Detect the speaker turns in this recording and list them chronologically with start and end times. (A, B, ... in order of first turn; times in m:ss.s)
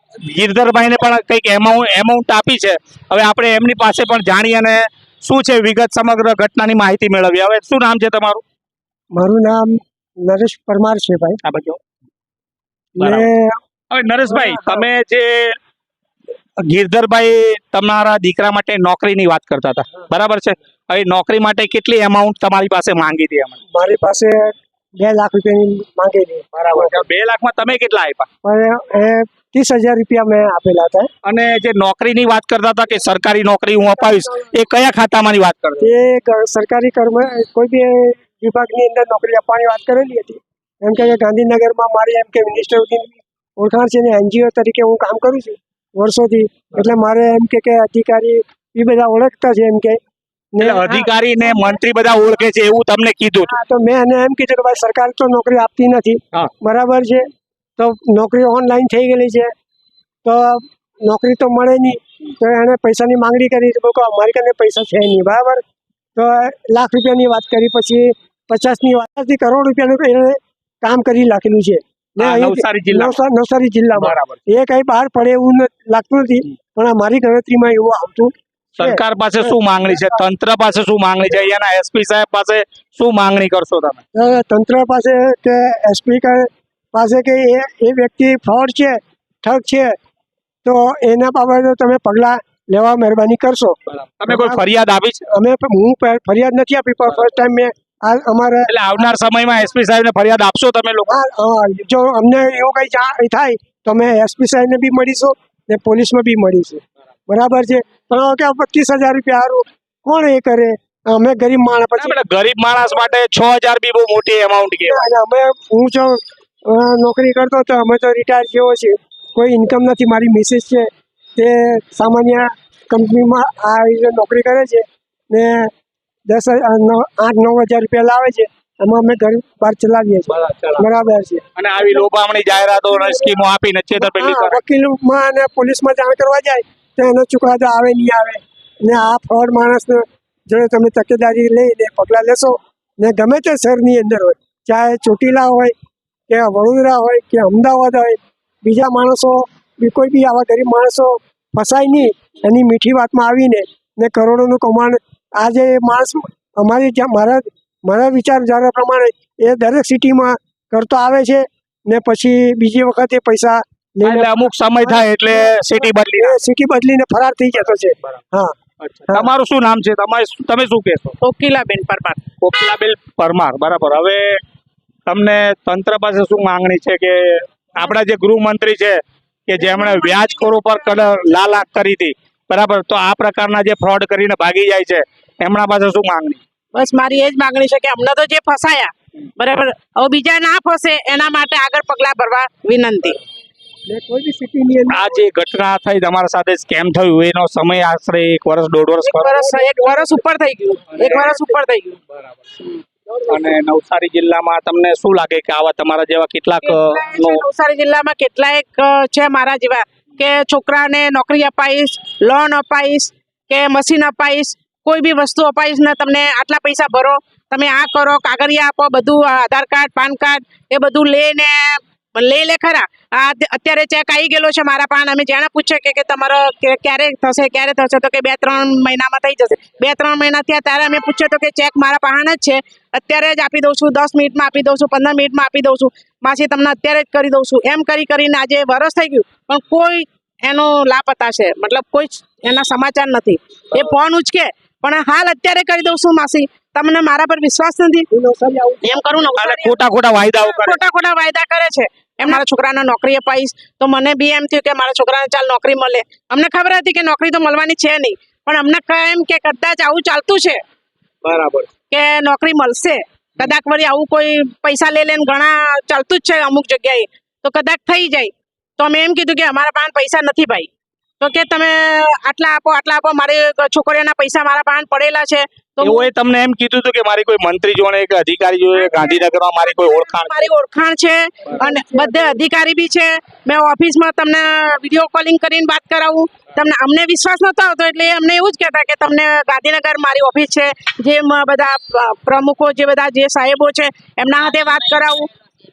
0:00.2-0:08.4 A
0:09.2-0:11.4 B
0:11.4-0:11.8 A
0:13.0-0:13.6 B
0:13.0-0:13.3 A
0:13.9-0:15.6 A
0:14.3-0:14.8 B
0:16.6-0:23.6 A
0:23.7-0:27.0 B
0:26.5-0:28.3 A
0:28.4-0:31.1 B
0:31.2-0:35.9 A
0:33.8-0:34.5 B
0:35.8-0:50.0 B
0:50.5-0:51.8 B
0:50.6-0:53.6 A
0:53.4-0:59.5 B
1:00.2-1:05.6 B
1:06.2-1:20.2 B
1:12.2-1:13.2 A
1:13.9-1:14.4 A
1:18.8-1:24.0 A
1:24.2-1:30.0 B
1:30.6-1:34.6 B
1:34.2-1:35.2 A
1:35.3-1:38.7 B
1:38.7-1:41.2 A
1:41.1-1:52.2 B
1:52.0-1:55.1 A
1:54.8-2:05.7 B
2:06.3-2:11.4 B
2:10.3-2:10.9 A
2:11.6-2:14.6 A
2:12.9-2:13.3 B
2:14.0-2:25.7 B
2:26.3-2:48.6 B
2:44.0-2:46.4 A
2:48.8-2:51.2 A
2:51.2-2:52.2 C
2:52.4-2:54.4 A
2:55.1-3:06.4 A
3:06.7-3:13.2 C
3:13.9-3:15.2 B
3:14.9-3:19.5 A
3:19.0-3:22.0 C
3:19.5-3:20.1 B
3:20.9-3:21.4 A
3:23.1-3:23.4 B
3:23.3-3:27.4 A
3:26.6-4:08.1 C
4:08.1-4:09.2 B
4:08.8-4:09.8 C
4:09.4-4:10.8 A
4:10.4-4:20.6 C
4:21.2-4:21.7 A
4:21.9-4:30.7 C
4:31.2-4:36.1 C
4:35.8-4:40.5 A
4:38.8-4:55.3 C
4:41.6-4:42.1 B